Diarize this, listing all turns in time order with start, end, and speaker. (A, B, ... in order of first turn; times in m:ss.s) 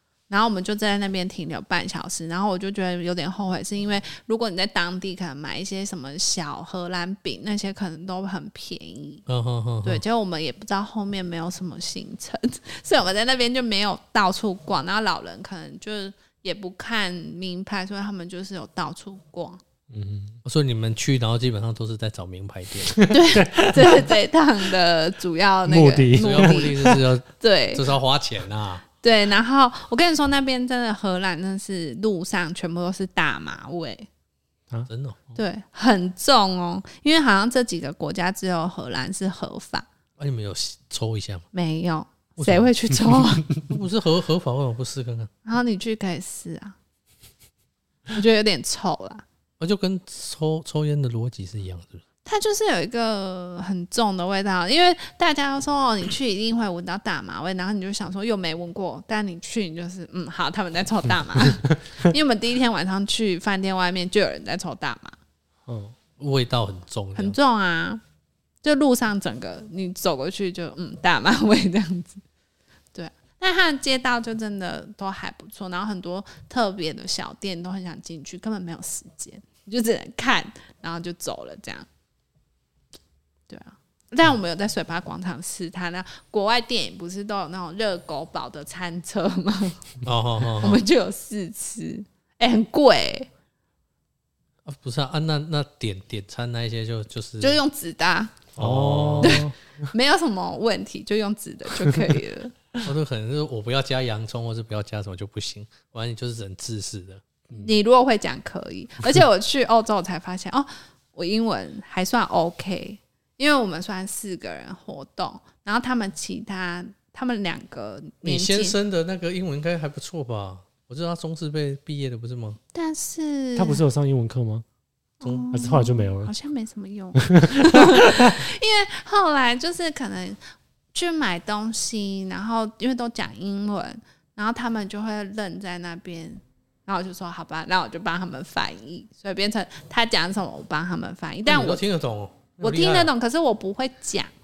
0:00.3-0:09.2 A
0:09.3-0:10.0 B
0:09.8-0:19.6 A
0:19.9-0:20.4 C
0:20.4-0:23.0 B
0:23.0-0:24.2 C
0:23.1-0:27.8 A
0:25.6-0:27.0 C
0:26.2-0:28.8 B
0:29.0-0:34.1 A
0:34.9-0:35.2 B
0:35.4-0:39.9 A
0:40.2-0:41.5 B
0:41.5-0:43.5 A
0:42.4-0:45.3 B
0:45.4-0:46.8 A
0:48.1-0:49.2 A
0:49.6-0:52.0 B
0:52.2-1:05.2 A
1:05.6-1:05.9 C
1:06.2-1:07.4 B
1:07.1-1:08.0 A
1:08.6-1:12.2 A
1:12.9-1:21.9 A
1:23.5-1:30.0 A
1:30.0-1:30.8 B
1:30.6-1:33.3 A
1:34.6-1:37.6 B
1:37.4-1:38.4 A
1:38.6-1:39.5 C
1:38.6-1:39.5 B
1:39.2-1:42.5 A
1:42.8-1:47.2 B
1:47.6-1:58.8 A
1:58.2-2:02.6 B
2:02.7-2:03.8 A
2:03.6-2:04.6 C
2:05.2-2:10.4 A
2:05.2-2:05.5 B
2:05.5-2:06.3 C
2:07.2-2:08.4 C
2:10.9-2:21.8 A
2:21.4-2:23.1 B
2:22.6-2:24.3 A